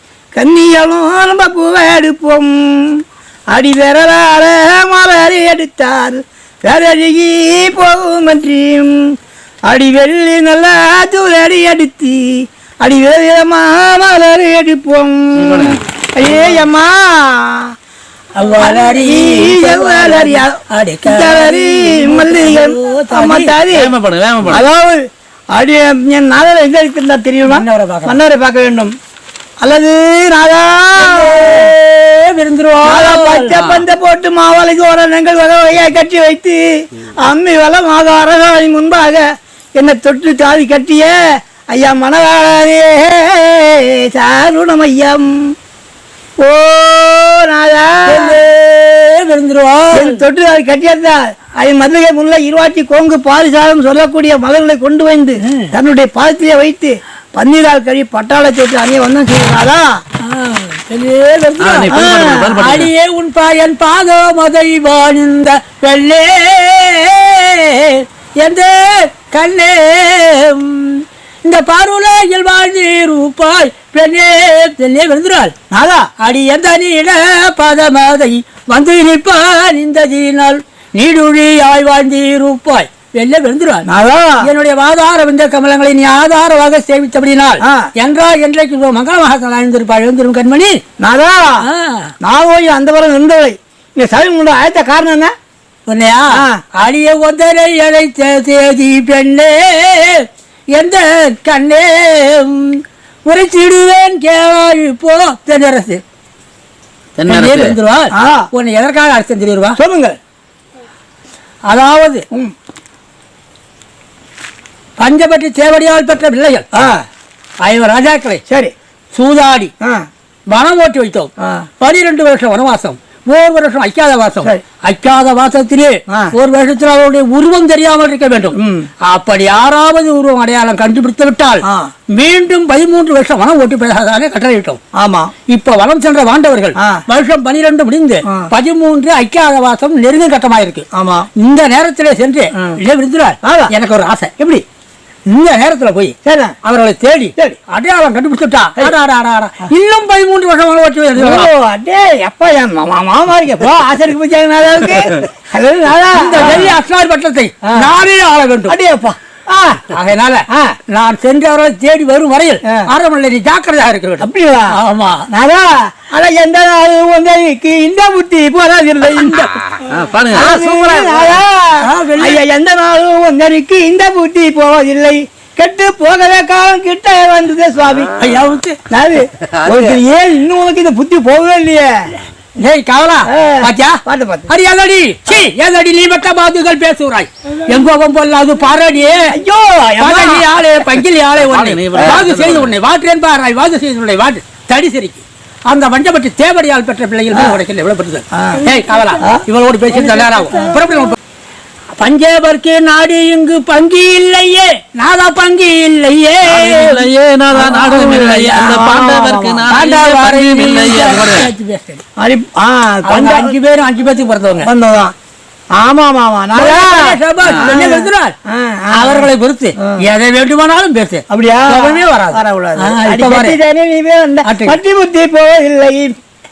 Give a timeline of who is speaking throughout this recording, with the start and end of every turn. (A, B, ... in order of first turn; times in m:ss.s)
0:00.3-0:03.0 A
0:03.5-0:09.0 A
0:09.7-0:17.7 A
0:15.4-0:15.8 B
0:18.4-0:23.6 C
0:18.6-0:23.9 A
0:23.7-0:24.7 B
0:24.4-0:25.0 A
0:25.5-0:28.9 A
0:27.5-0:28.2 C
0:29.6-0:31.7 A
0:31.0-0:33.6 C
0:32.8-0:39.2 A
0:33.5-0:33.9 B
0:39.8-0:41.1 A
0:41.7-0:45.3 A
0:46.4-0:48.4 A
0:48.1-0:50.2 C
0:49.9-1:00.0 A
0:55.4-0:55.7 C
1:00.2-1:02.0 C
1:01.6-1:02.9 B
1:01.9-1:02.6 A
1:02.6-1:15.5 C
1:15.7-1:16.1 A
1:16.2-1:23.9 C
1:23.8-1:24.5 A
1:24.4-1:30.8 C
1:27.6-1:27.9 A
1:31.0-1:31.7 A
1:31.6-1:32.1 C
1:32.2-1:35.3 A
1:35.9-1:46.0 C
1:47.2-1:47.8 B
1:47.3-1:49.8 C
1:48.1-1:48.5 A
1:49.8-1:50.2 A
1:51.7-1:52.2 C
1:55.0-1:56.7 C
1:56.7-1:57.0 A
1:57.6-1:58.4 C
1:58.5-1:58.7 A
1:59.1-1:59.7 C
1:59.8-2:00.1 A
2:00.5-2:14.8 C
2:01.4-2:01.7 A
2:06.1-2:06.3 A
2:08.6-2:08.9 A
2:11.6-2:11.9 A
2:15.0-2:15.3 A
2:15.5-2:20.8 C
2:20.9-2:21.3 A
2:21.4-2:24.3 C
2:23.4-2:23.7 A
2:24.4-2:24.6 A
2:25.3-2:31.5 C
2:26.2-2:26.6 A
2:31.2-2:36.8 A
2:36.1-2:38.8 C
2:38.7-2:39.8 A
2:39.9-2:45.2 C
2:40.5-2:40.8 A
2:44.2-2:44.8 A
2:45.3-2:49.5 A
2:49.9-2:50.6 B
2:50.3-2:58.1 A
2:51.8-2:52.4 C
2:58.2-2:58.8 C
2:58.9-3:01.9 A
3:02.6-3:09.4 C
3:03.3-3:04.5 A
3:09.3-3:10.5 A
3:10.0-3:21.2 C
3:11.4-3:12.7 B
3:12.0-3:12.2 A
3:17.3-3:17.6 A
3:18.3-3:18.6 A
3:22.0-3:27.0 C
3:26.5-3:31.5 B
3:27.5-3:29.7 A
3:29.7-3:32.0 C
3:32.2-3:33.6 A
3:33.1-3:34.7 C
3:34.6-3:35.1 A
3:35.8-3:40.0 A
3:36.5-3:38.3 C
3:38.9-3:43.6 C
3:41.3-3:46.2 A
3:44.4-3:44.8 C